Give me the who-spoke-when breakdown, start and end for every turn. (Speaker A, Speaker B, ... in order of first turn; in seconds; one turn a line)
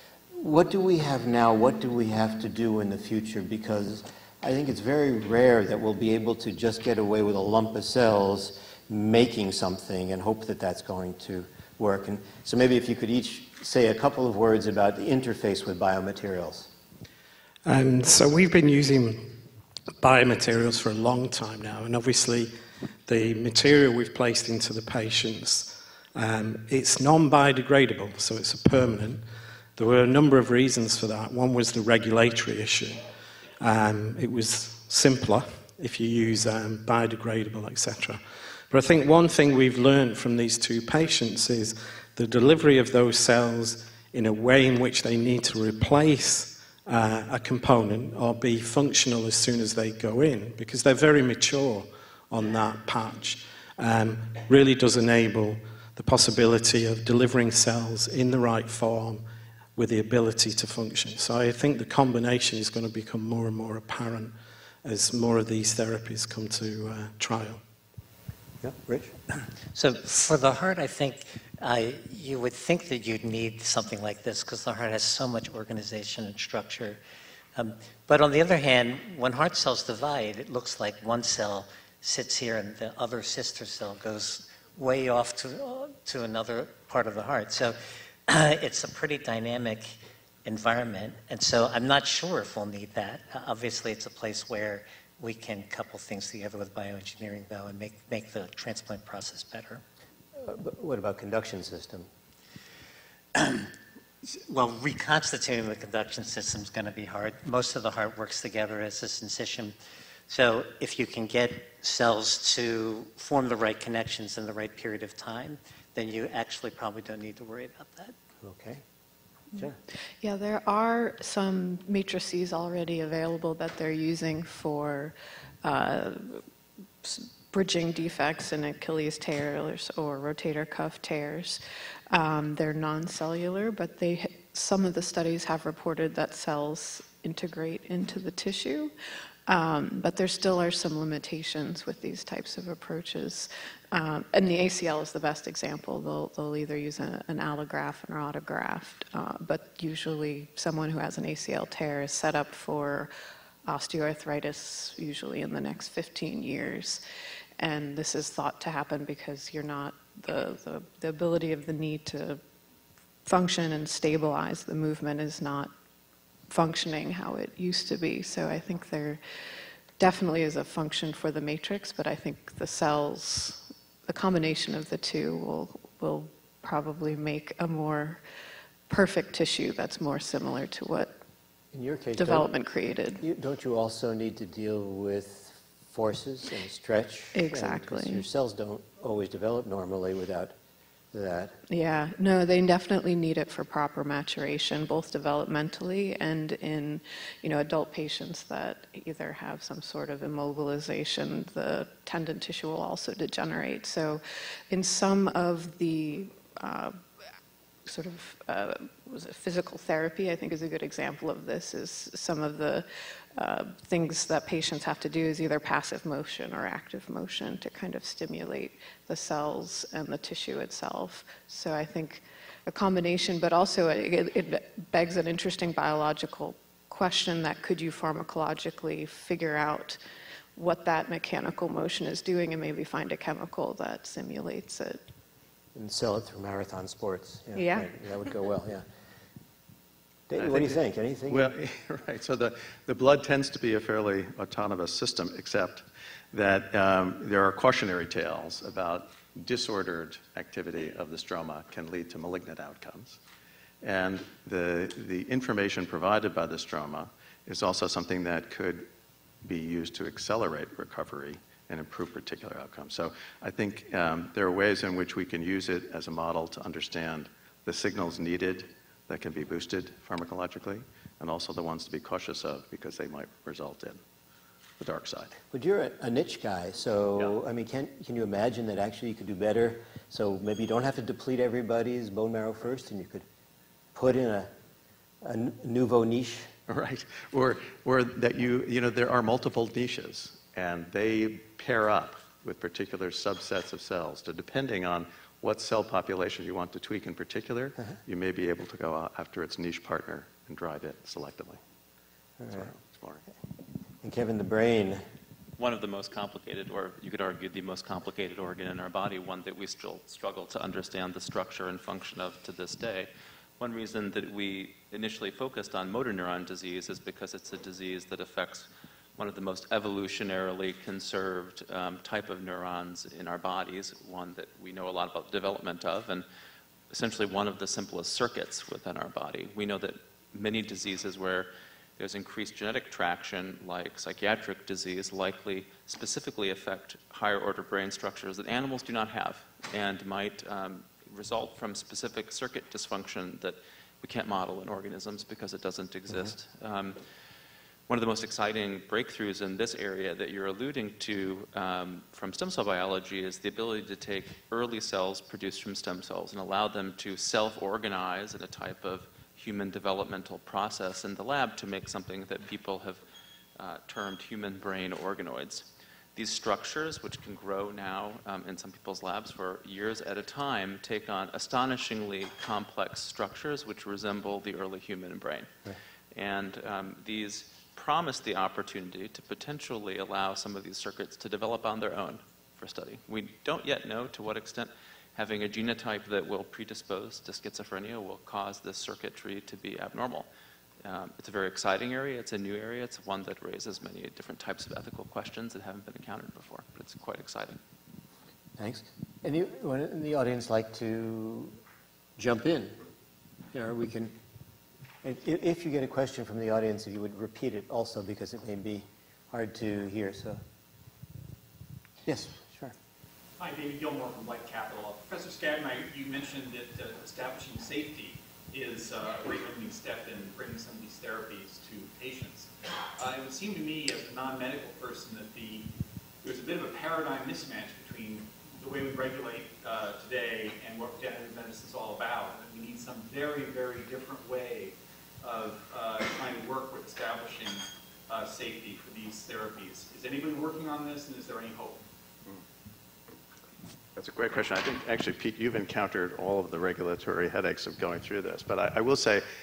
Speaker A: 0.3-16.7
Speaker B: 17.7-19.3
Speaker B: 20.0-22.5
Speaker B: 23.1-29.2
Speaker B: 29.8-33.0
Speaker B: 33.6-59.2
Speaker B: 59.8-67.6
Speaker A: 68.6-69.4
Speaker C: 69.8-77.0
Speaker C: 77.6-99.8
Speaker A: 100.4-102.1
Speaker C: 103.4-103.7
Speaker C: 104.5-109.8
Speaker C: 110.3-118.2
Speaker A: 118.4-118.8
Speaker D: 120.2-126.4
Speaker D: 127.0-131.6
Speaker D: 132.1-138.9
Speaker D: 139.5-153.1
Speaker D: 153.7-157.0
Speaker D: 157.6-162.4
Speaker D: 163.3-165.7
Speaker D: 166.5-169.2
Speaker D: 170.0-178.2
Speaker D: 178.9-181.2
Speaker A: 181.7-182.5
Speaker D: 182.2-183.2
Speaker A: 183.2-190.6
Speaker D: 187.3-188.2
Speaker A: 191.1-191.6
Speaker D: 191.7-206.9
Speaker D: 207.8-230.0
Speaker D: 230.6-235.0
Speaker A: 235.8-238.8
Speaker D: 237.6-237.9
Speaker A: 240.3-241.5
Speaker E: 240.4-253.2
Speaker E: 253.8-258.9
Speaker E: 259.4-274.0
Speaker E: 274.8-275.4
Speaker A: 275.5-283.3
Speaker A: 283.9-284.5
Speaker A: 285.2-286.5
Speaker E: 286.7-301.6
Speaker A: 302.4-302.7
Speaker E: 302.5-303.2
Speaker A: 304.0-305.0
Speaker F: 305.6-326.2
Speaker F: 326.9-347.0
Speaker F: 347.9-363.0
Speaker F: 363.6-375.5
Speaker F: 376.1-390.3
Speaker F: 390.8-397.6
Speaker A: 398.6-401.6
Speaker A: 402.2-402.8
Speaker A: 403.5-404.1
Speaker A: 405.0-410.4
Speaker A: 412.1-412.8
Speaker G: 413.4-425.7
Speaker G: 426.2-441.8
Speaker E: 444.0-449.2